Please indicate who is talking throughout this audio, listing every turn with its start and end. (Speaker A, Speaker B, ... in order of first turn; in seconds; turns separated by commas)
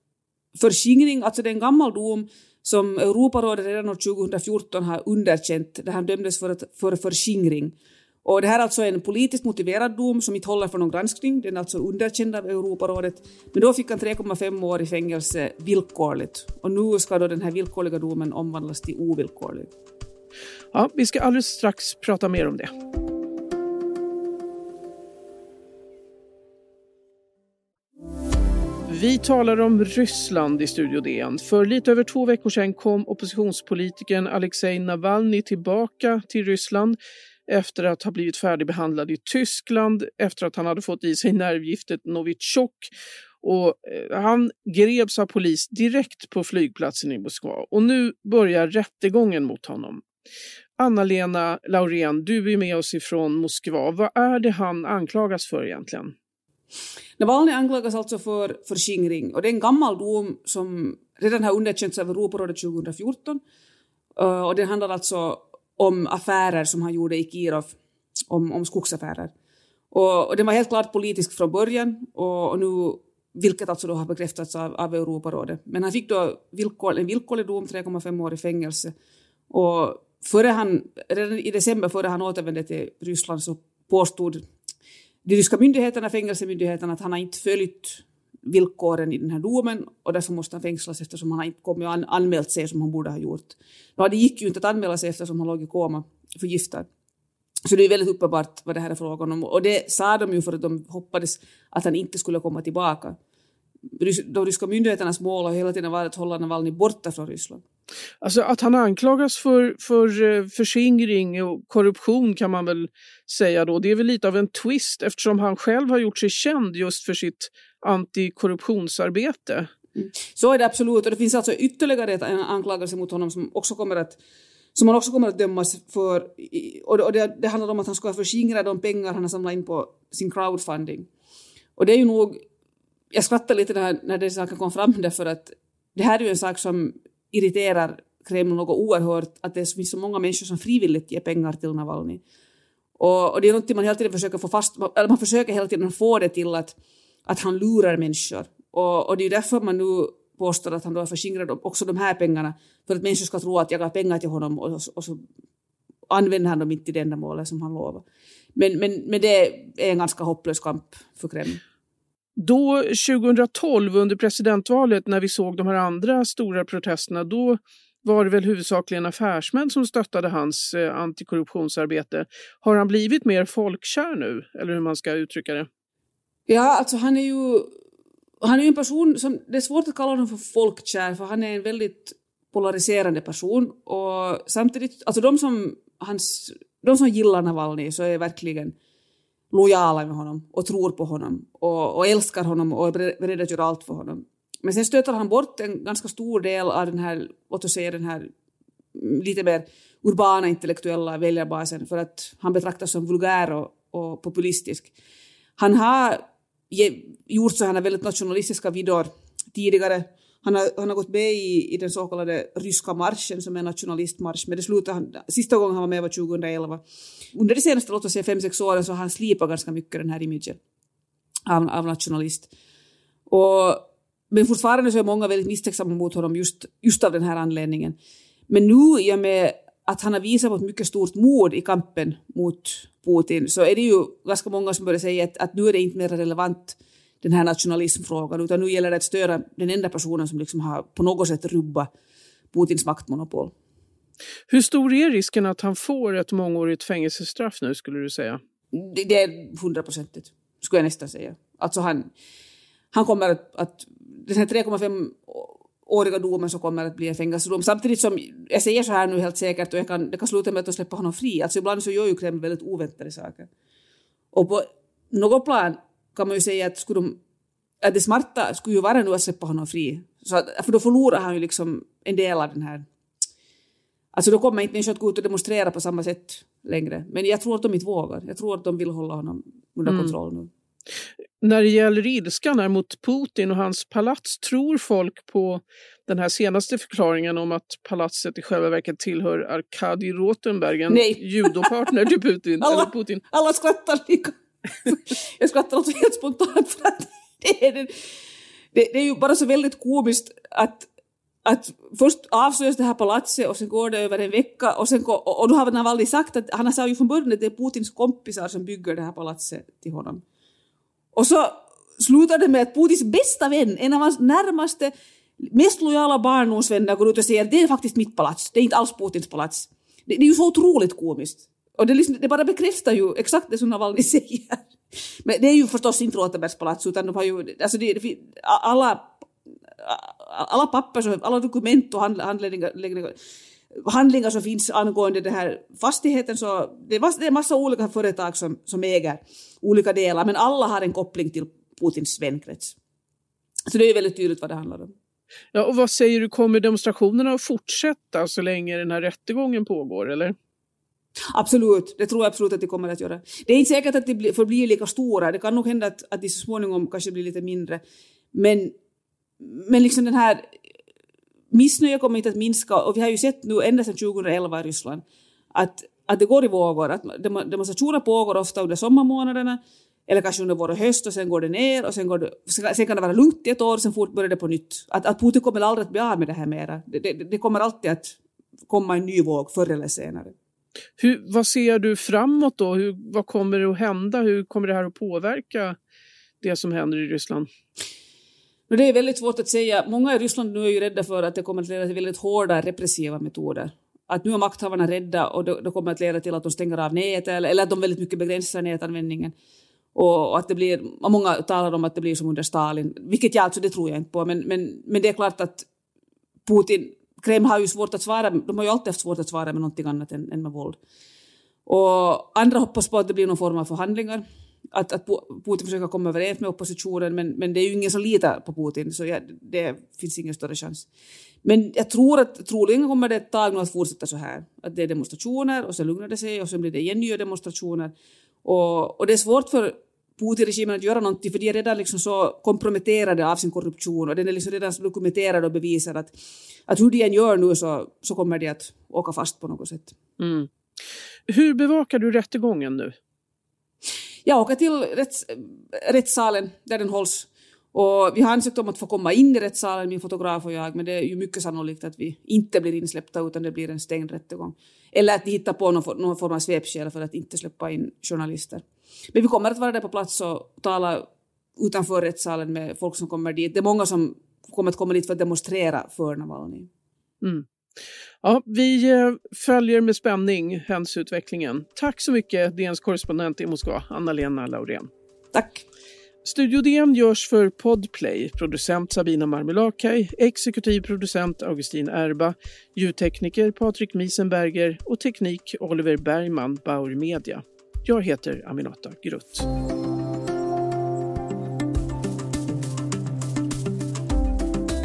Speaker A: 0.5-19.7, Speaker B: 20.7-22.7, Speaker B: 28.9-50.0, Speaker B: 50.8-56.1, Speaker A: 57.2-63.4, Speaker A: 64.2-67.7, Speaker A: 68.3-69.3, Speaker A: 69.9-78.9, Speaker A: 79.5-84.4, Speaker A: 85.2-96.9, Speaker A: 97.6-103.2, Speaker A: 104.0-107.6, Speaker B: 108.2-119.7, Speaker A: 120.0-124.2, Speaker A: 124.7-131.1, Speaker A: 131.8-132.4, Speaker A: 133.1-142.2, Speaker A: 143.0-146.7, Speaker A: 147.2-155.2, Speaker A: 156.1-158.0, Speaker A: 158.5-161.6, Speaker B: 162.4-175.7, Speaker A: 176.5-177.7, Speaker A: 178.4-188.7, Speaker A: 189.5-198.3, Speaker A: 198.9-204.9, Speaker A: 205.6-220.6, Speaker A: 221.5-222.5, Speaker A: 223.3-228.0, Speaker A: 228.5-241.9, Speaker A: 242.5-243.5, Speaker B: 244.5-248.4, Speaker A: 248.7-252.1, Speaker A: 252.9-263.5, Speaker A: 264.3-267.2, Speaker A: 267.8-272.9, Speaker A: 274.1-280.5, Speaker B: 279.9-280.1, Speaker B: 281.4-293.2, Speaker A: 290.9-291.9, Speaker A: 292.6-297.9, Speaker A: 298.7-300.9, Speaker A: 301.4-310.2, Speaker A: 311.1-324.7, Speaker A: 325.2-329.2, Speaker A: 329.8-333.2, Speaker A: 333.7-342.8, Speaker A: 343.7-344.9, Speaker B: 345.5-350.3, Speaker A: 351.3-357.8, Speaker A: 358.3-358.7, Speaker A: 359.4-360.6, Speaker A: 361.5-380.3, Speaker B: 381.0-385.8, Speaker B: 386.4-387.5, Speaker A: 388.7-399.3, Speaker A: 399.9-405.7, Speaker A: 406.4-410.8, Speaker A: 411.6-420.9, Speaker A: 421.4-436.1, Speaker A: 436.7-439.9, Speaker B: 440.2-440.5, Speaker B: 441.3-442.9, Speaker A: 444.2-466.7, Speaker B: 468.2-474.9, Speaker A: 475.3-475.6, Speaker B: 476.2-489.5